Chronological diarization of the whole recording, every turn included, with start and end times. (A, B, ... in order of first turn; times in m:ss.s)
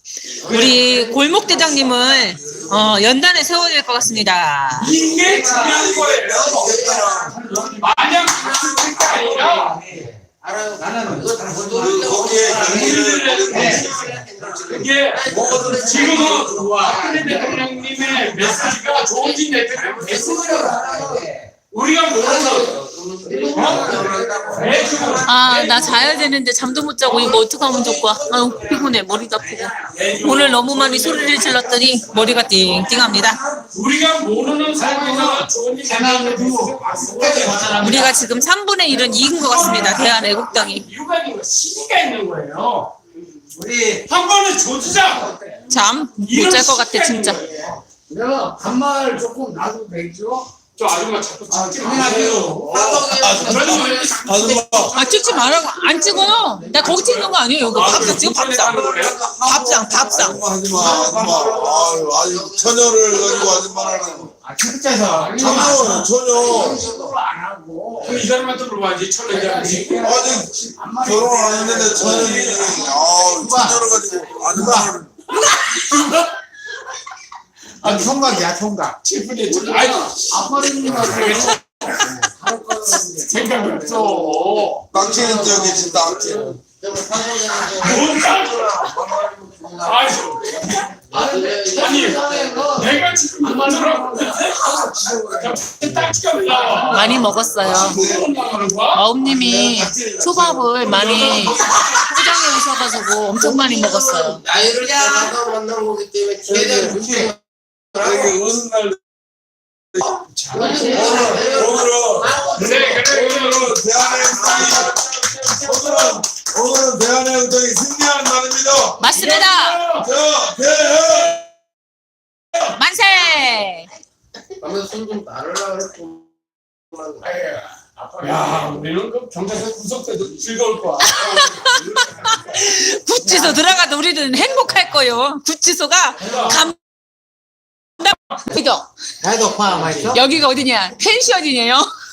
0:00.3-0:03.2 A
0:00.4-0:05.0 B
0:04.8-0:06.7 C
0:05.3-0:07.3 D
0:05.3-0:05.7 E
0:05.5-0:21.3 A
0:07.0-0:10.0 E
0:07.5-0:09.8 C
0:10.8-0:11.9 E
0:11.7-0:15.8 D
0:12.5-0:13.7 C
0:12.6-0:13.0 E
0:13.5-0:13.9 E
0:14.7-0:21.0 C
0:15.8-0:16.4 E
0:18.3-0:18.6 E
0:20.6-0:21.4 E
0:21.7-0:22.9 C
0:22.1-0:25.3 A
0:23.3-0:25.2 E
0:23.5-0:26.4 C
0:25.2-0:33.4 B
0:27.0-0:27.4 C
0:29.8-0:38.3 C
0:34.8-0:38.2 E
0:37.5-0:38.0 A
0:37.8-0:40.8 B
0:38.9-0:42.9 C
0:39.6-0:40.1 E
0:43.5-0:44.1 E
0:44.0-0:45.6 C
0:45.7-0:47.4 B
0:46.2-0:47.7 C
0:47.4-0:47.8 A
0:48.1-0:50.5 E
0:50.7-0:59.4 C
0:51.5-0:52.8 E
0:51.9-0:56.3 A
0:53.0-0:55.0 D
0:54.9-0:58.8 B
0:57.8-0:58.1 A
0:58.6-1:04.4 A
0:59.4-1:00.3 B
0:59.6-1:00.0 E
1:00.1-1:04.3 D
1:00.8-1:01.5 E
1:04.4-1:08.2 E
1:05.1-1:07.2 A
1:05.3-1:06.8 D
1:07.9-1:08.4 A
1:08.0-1:10.2 C
1:09.3-1:13.9 E
1:10.0-1:15.1 D
1:12.0-1:13.2 A
1:12.1-1:12.6 C
1:14.5-1:14.9 E
1:17.8-1:19.0 E
1:19.0-1:22.0 C
1:19.5-1:21.6 E
1:21.0-1:21.5 A
1:22.4-1:35.2 A
1:23.2-1:24.9 C
1:24.9-1:26.6 D
1:25.2-1:26.0 E
1:27.7-1:29.0 C
1:27.9-1:29.7 D
1:29.8-1:30.9 C
1:31.1-1:34.4 E
1:31.7-1:39.1 C
1:34.9-1:35.4 E
1:36.7-1:37.0 E
1:36.8-1:38.0 B
1:37.5-1:38.4 D
1:38.9-1:45.3 B
1:39.2-1:41.6 D
1:40.8-1:42.1 C
1:43.4-1:47.4 A
1:46.9-1:47.2 E
1:47.9-1:48.3 A
1:47.9-1:49.0 D
1:50.3-1:56.2 C
1:50.5-1:53.1 A
1:50.5-1:51.4 E
1:50.7-1:55.0 D
1:54.0-1:55.0 A
1:55.5-1:59.0 D
1:59.0-1:59.8 B
1:59.1-2:00.1 C
2:00.0-2:01.4 D
2:02.7-2:03.9 B
2:04.6-2:06.3 A
2:06.9-2:07.4 A
2:07.2-2:12.4 C
2:11.0-2:16.8 B
2:16.2-2:16.6 C
2:18.0-2:18.9 B
2:19.2-2:20.2 E
2:19.8-2:20.1 A
2:20.1-2:21.9 B